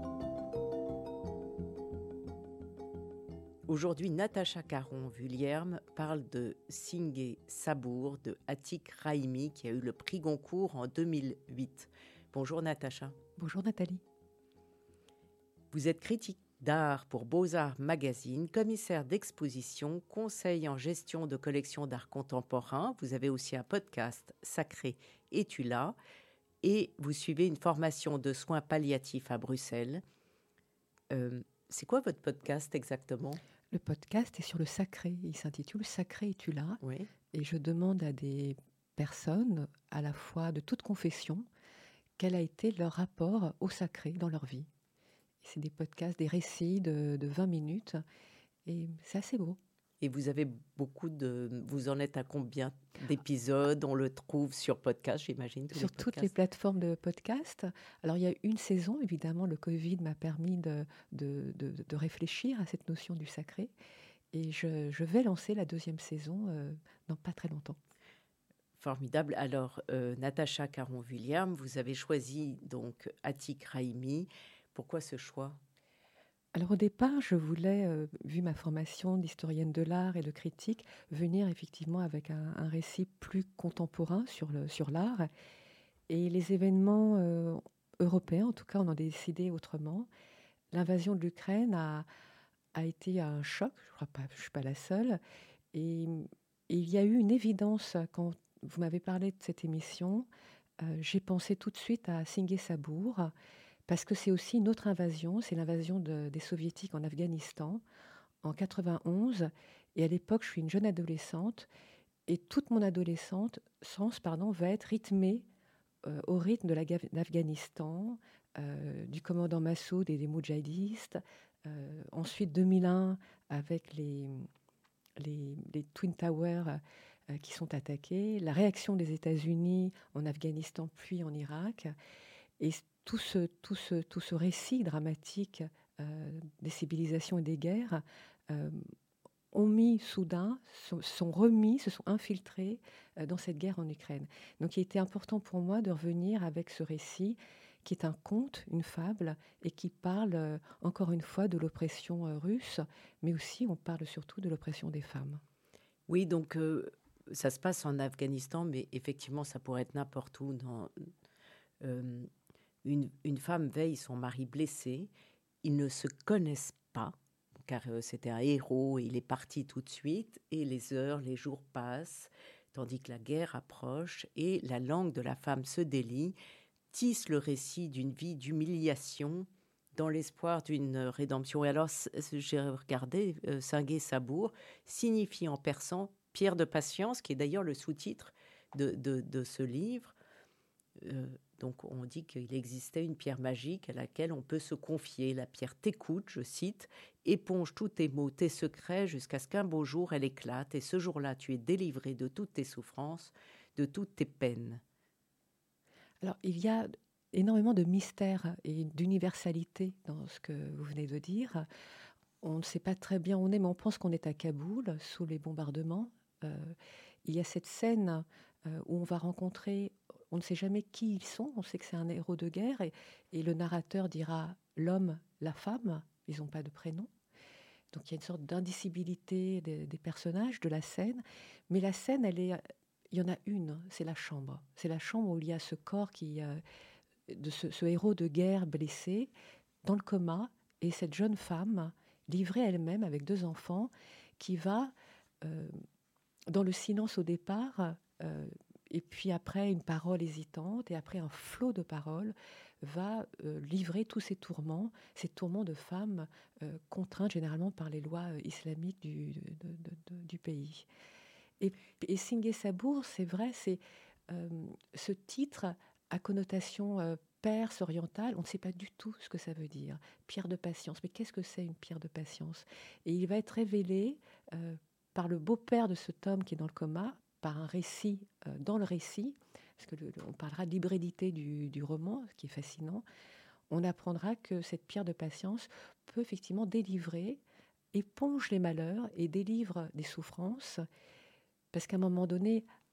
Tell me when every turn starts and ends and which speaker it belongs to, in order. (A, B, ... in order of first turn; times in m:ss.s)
0:03.7-0:13.2 A
0:13.4-0:14.0 B
0:15.7-0:26.0 A
0:26.6-0:30.0 A
0:31.1-0:33.4 A
0:33.7-0:36.8 B
0:36.8-0:37.1 A
0:37.3-0:41.4 B
0:42.2-0:44.7 B
0:45.4-0:48.0 B
0:48.6-0:49.6 B
0:50.0-0:56.3 A
0:55.7-1:03.7 B
1:04.3-1:07.8 B
1:08.8-1:15.6 A
1:16.5-1:25.3 B
1:26.1-1:30.1 B
1:30.7-1:32.1 B
1:32.7-1:35.2 B
1:35.7-1:40.3 B
1:40.8-1:43.3 B
1:43.9-1:47.8 B
1:48.4-1:51.7 B
1:52.3-1:55.5 B
1:56.0-2:04.5 B
2:05.2-2:11.9 B
2:12.6-2:18.9 B
2:19.5-2:35.4 B
2:36.1-2:40.9 A
2:41.8-2:42.3 A
2:42.8-2:45.1 A
2:45.6-2:56.3 A
2:56.9-3:10.1 A
3:11.0-3:24.8 A
3:26.2-3:31.7 B
3:32.4-3:47.1 B
3:47.9-3:52.6 B
3:53.1-3:56.6 B
3:57.3-3:59.3 B
3:59.8-4:05.8 B
4:06.5-4:20.8 B
4:21.6-4:43.0 B
4:43.7-4:47.4 B
4:47.9-4:50.8 B
4:51.7-4:52.6 B